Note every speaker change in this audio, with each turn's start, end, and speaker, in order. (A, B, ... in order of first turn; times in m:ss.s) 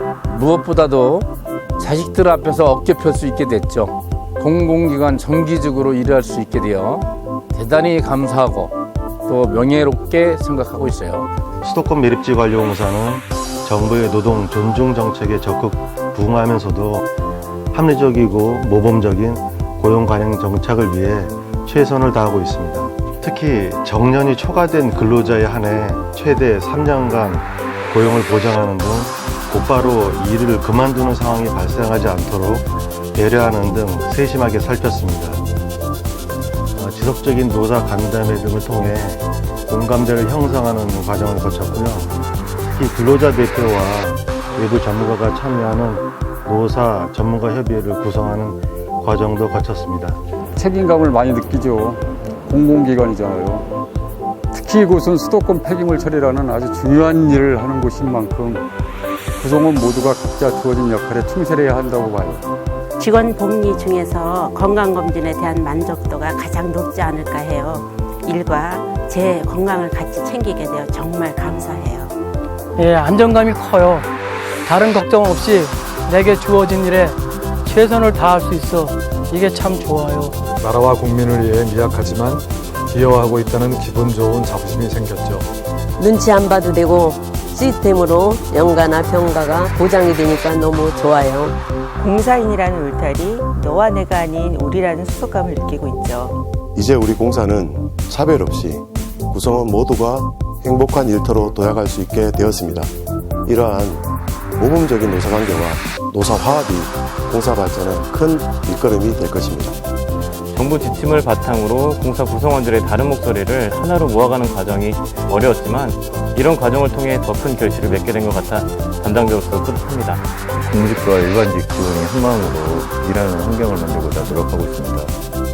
0:00.3-0:01.3 A
0:01.8-0:07.0 A
0:07.6-0:08.7 A
0:09.3-0:11.3 A
0:11.6-0:17.0 B
0:17.7-0:35.4 B
0:36.8-0:42.2 B
0:42.7-0:50.2 B
0:50.6-0:53.7 C
0:54.5-0:58.7 C
0:59.4-1:02.5 C
1:03.0-1:12.2 D
1:12.8-1:14.1 E
1:14.7-1:20.4 E
1:20.6-1:25.5 F
1:26.0-1:31.6 G
1:32.0-1:36.4 H
1:36.8-1:42.9 I
1:43.5-1:49.8 I
1:50.5-2:00.3 J
2:00.6-2:05.2 K